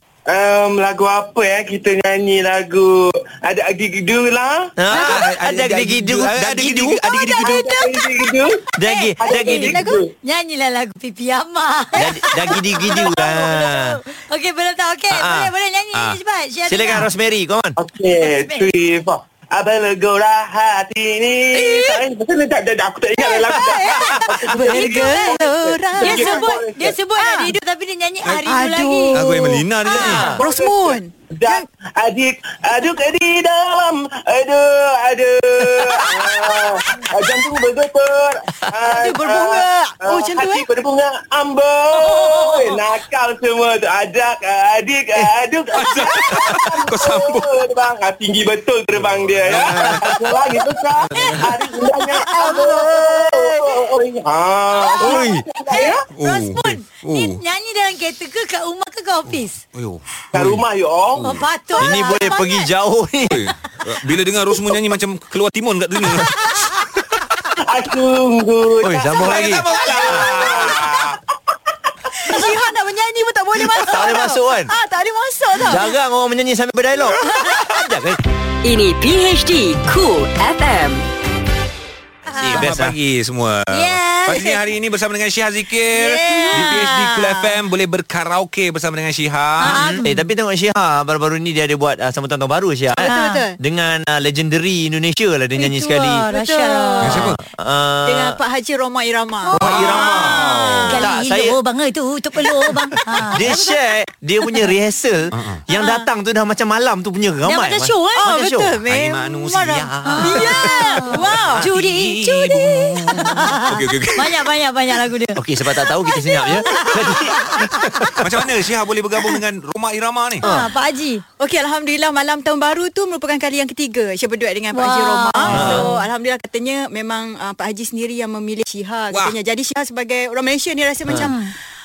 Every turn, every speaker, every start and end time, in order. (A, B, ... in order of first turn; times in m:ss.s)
0:00.3-0:04.7 A
0:04.8-0:07.1 B
0:04.9-0:07.6 C
0:07.1-0:08.1 D
0:07.4-0:08.6 A
0:08.8-0:09.9 B
0:08.9-0:09.7 E
0:09.2-0:10.1 A
0:09.4-0:10.0 D
0:10.2-0:17.1 E
0:12.0-0:14.0 B
0:15.1-0:15.5 B
0:16.7-0:17.8 B
0:17.8-0:27.0 A
0:21.6-0:21.8 E
0:23.2-0:26.4 D
0:23.8-0:24.2 E
0:24.7-0:25.3 E
0:26.0-0:29.3 E
0:27.2-0:27.6 D
0:28.5-0:31.7 D
0:29.1-0:30.3 C
0:30.0-0:30.4 B
0:30.2-0:56.0 A
0:36.0-0:36.3 B
0:38.9-0:40.7 D
0:45.8-0:47.5 C
0:48.9-0:50.2 C
0:49.5-0:50.1 B
0:51.1-0:51.5 C
0:52.3-0:53.8 B
0:52.4-0:52.7 E
0:54.8-0:55.1 E
0:55.0-0:55.4 B
0:55.7-0:59.6 E
0:56.2-0:57.4 C
0:59.3-1:00.6 C
1:00.3-1:01.3 A
1:01.2-1:01.4 C
1:01.2-1:02.7 E
1:01.8-1:03.5 B
1:03.3-1:06.7 C
1:07.6-1:11.2 A
1:08.8-1:10.4 B
1:09.2-1:11.2 C
1:12.2-1:15.9 D
1:13.6-1:14.7 B
1:15.6-1:18.2 B
1:17.1-1:17.6 D
1:18.6-1:21.0 F
1:22.3-1:22.7 E
1:22.4-1:23.0 B
1:22.4-1:29.8 C
1:23.7-1:24.6 E
1:25.9-1:27.5 D
1:29.6-1:30.2 E
1:29.6-1:36.3 B
1:32.9-1:33.6 D
1:33.1-1:33.4 E
1:35.6-1:37.2 E
1:36.3-1:37.2 D
1:37.0-1:37.4 C
1:37.1-1:38.4 B
1:38.1-1:41.0 D
1:39.5-1:40.3 E
1:39.5-1:41.6 B
1:39.6-1:40.9 C
1:40.9-1:43.5 E
1:43.3-1:48.8 B
1:43.4-1:43.8 D
1:45.3-1:45.6 C
1:45.7-1:46.1 D
1:47.5-1:48.2 E
1:48.2-1:51.7 D
1:48.9-1:50.5 C
1:49.7-1:50.6 B
1:50.0-1:57.6 E
1:51.2-1:51.7 C
1:51.3-1:52.0 B
1:53.6-1:54.4 C
1:55.4-1:58.2 B
1:58.1-2:00.5 C
2:00.4-2:00.7 B
2:00.4-2:01.2 E
2:01.4-2:11.5 D
2:04.7-2:06.0 E
2:05.5-2:06.0 B
2:05.5-2:05.8 C
2:09.1-2:09.4 C
2:11.2-2:11.5 E